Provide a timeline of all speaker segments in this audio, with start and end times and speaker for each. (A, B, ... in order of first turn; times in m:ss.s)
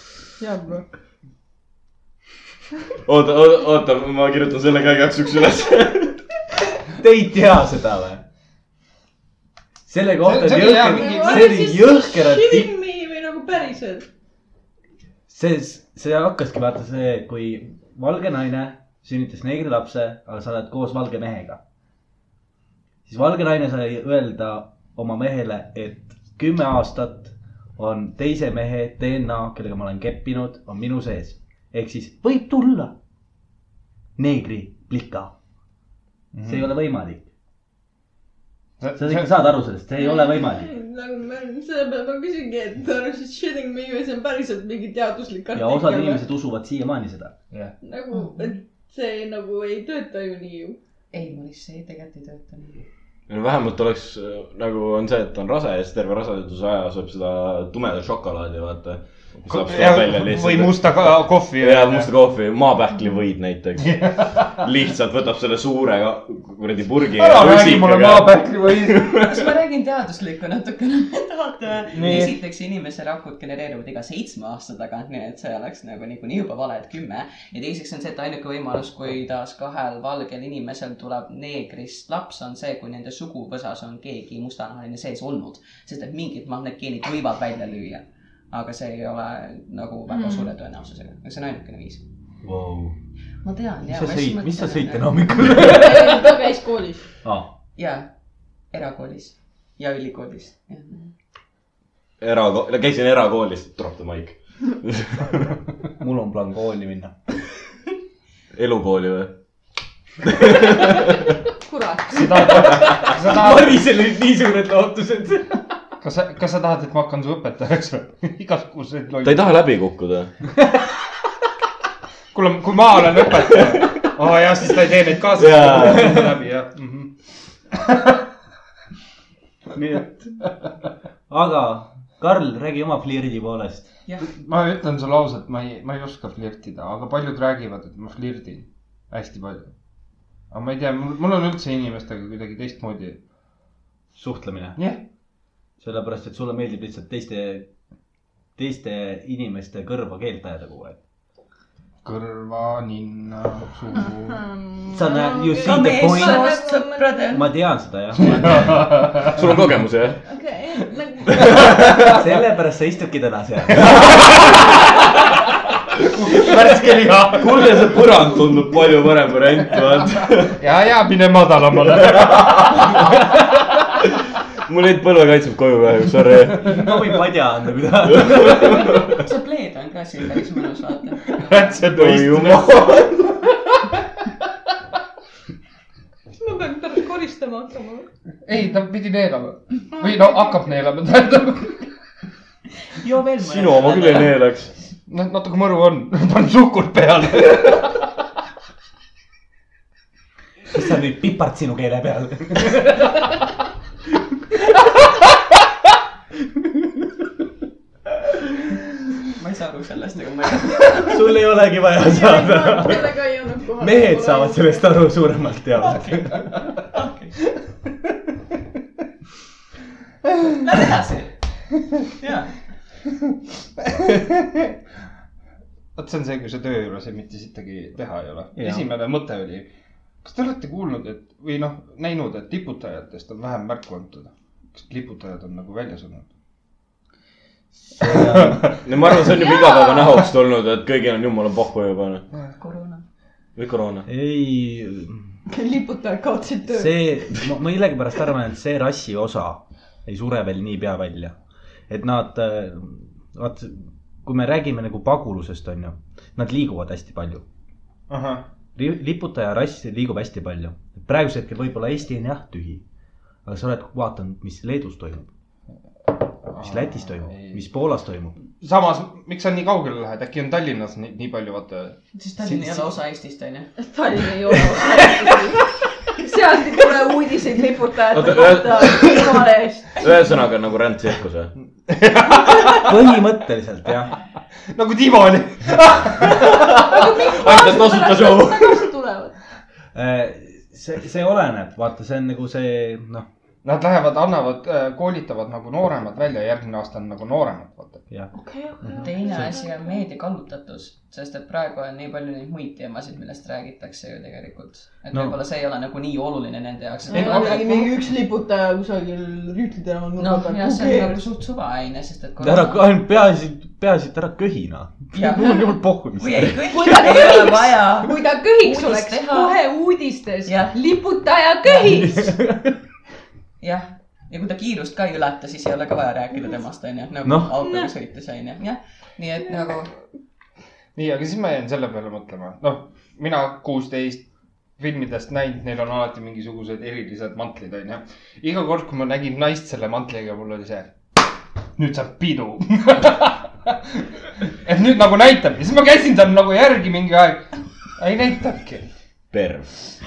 0:00.4-0:00.8 A
0:03.0-0:06.2 B
0:07.0-0:08.2 C
0:09.9-0:12.7 C
0:10.2-0:11.6 D
0:10.9-0:14.1 A
0:15.3-0:21.6 C
0:23.1-0:33.0 C
0:34.2-0:35.3 C
0:36.3-0:36.6 D
0:36.4-0:37.3 C
0:38.8-0:39.3 D
0:39.0-0:40.7 C
0:40.0-0:46.2 A
0:45.5-0:47.4 C
0:47.8-0:50.8 A
0:48.1-0:48.6 E
0:51.1-0:52.8 E
0:53.3-1:00.9 B
0:59.5-1:02.1 D
1:01.6-1:09.4 B
1:03.8-1:04.5 D
1:07.1-1:09.1 D
1:09.2-1:32.0 E
1:11.9-1:12.4 D
1:30.1-1:30.5 A
1:32.4-1:33.0 C
1:33.4-1:35.1 E
1:33.9-1:36.2 C
1:35.5-1:37.1 A
1:37.2-1:37.5 C
1:37.8-1:38.1 E
1:38.7-1:41.1 E
1:42.2-1:45.6 B
1:46.0-1:47.2 C
1:48.5-1:49.4 B
1:50.2-1:51.3 B
1:51.6-1:52.8 A
1:52.1-1:53.8 D
1:52.9-1:55.6 C
1:56.0-1:59.4 D
1:59.2-2:00.3 B
2:02.3-2:07.1 D
2:03.7-2:04.0 B
2:05.4-2:06.2 B
2:07.7-2:08.2 D
2:09.8-2:10.4 C
2:11.3-2:13.9 C
2:14.2-2:19.7 D
2:20.5-2:23.2 D
2:24.2-2:24.8 C
2:25.8-2:27.7 C
2:28.6-2:31.0 C
2:32.0-2:34.4 D
2:34.4-2:37.3 A
2:34.9-2:36.5 C
2:35.6-2:37.5 E
2:37.3-2:38.8 C
2:38.4-2:39.2 D
2:39.2-2:40.2 B
2:40.3-2:41.8 A
2:41.3-2:42.1 B
2:41.6-2:42.1 D
2:42.0-2:44.6 C
2:43.8-2:45.1 D
2:46.0-2:47.8 D
2:47.3-2:50.6 B
2:50.6-2:53.0 D
2:52.1-2:53.1 B
2:54.6-2:56.9 B
2:56.7-2:59.0 C
2:58.1-2:59.2 B
2:58.9-3:01.9 E
3:01.4-3:03.1 D
3:01.9-3:03.4 B
3:06.4-3:08.1 A
3:08.4-3:11.9 D
3:10.0-3:10.6 A
3:13.0-3:14.4 E
3:13.4-3:14.7 B
3:15.1-3:18.0 D
3:20.7-3:23.2 C
3:26.6-3:27.1 C
3:29.3-3:31.2 E
3:30.9-3:33.2 C
3:32.0-3:34.9 A
3:33.8-3:36.5 C
3:35.9-3:36.2 E
3:36.8-3:37.3 E
3:40.6-3:41.3 E
3:42.2-3:42.5 E
3:43.8-3:44.8 D
3:46.0-3:49.7 D
3:48.6-3:48.9 C
3:50.2-3:56.3 D
3:57.9-3:58.7 C
3:58.1-3:58.8 D
3:58.8-4:02.3 B
3:59.3-4:00.2 A
4:02.6-4:03.0 E
4:03.6-4:04.1 B
4:04.1-4:05.3 C
4:05.5-4:07.1 A
4:06.7-4:11.4 C
4:11.9-4:17.4 C
4:18.1-4:18.4 D
4:18.8-4:22.8 C
4:23.4-4:25.3 C
4:26.4-4:27.6 D
4:26.6-4:28.4 C
4:28.6-4:32.0 D
4:32.2-4:33.7 E
4:32.4-4:32.8 C
4:33.8-4:40.0 A
4:38.1-4:39.2 B
4:40.0-4:41.5 B
4:41.9-4:43.0 D
4:42.8-4:44.1 C
4:44.7-4:46.9 D
4:46.7-4:49.4 A
4:46.7-4:48.9 B
4:49.9-4:53.3 C
4:53.6-4:58.0 D
4:58.3-5:00.0 A
4:58.9-4:59.5 C
4:59.0-5:07.9 E
5:07.1-5:11.2 A
5:10.2-5:12.8 E
5:12.4-5:16.7 C
5:15.1-5:19.6 E
5:16.7-5:22.3 A
5:20.5-5:20.8 E
5:21.8-5:22.8 C
5:23.6-5:29.9 E
5:27.2-5:27.5 C
5:27.6-5:27.9 A
5:31.0-5:34.3 D
5:34.8-5:40.9 D
5:41.8-5:44.0 D
5:44.6-5:48.9 D
5:49.3-5:49.7 B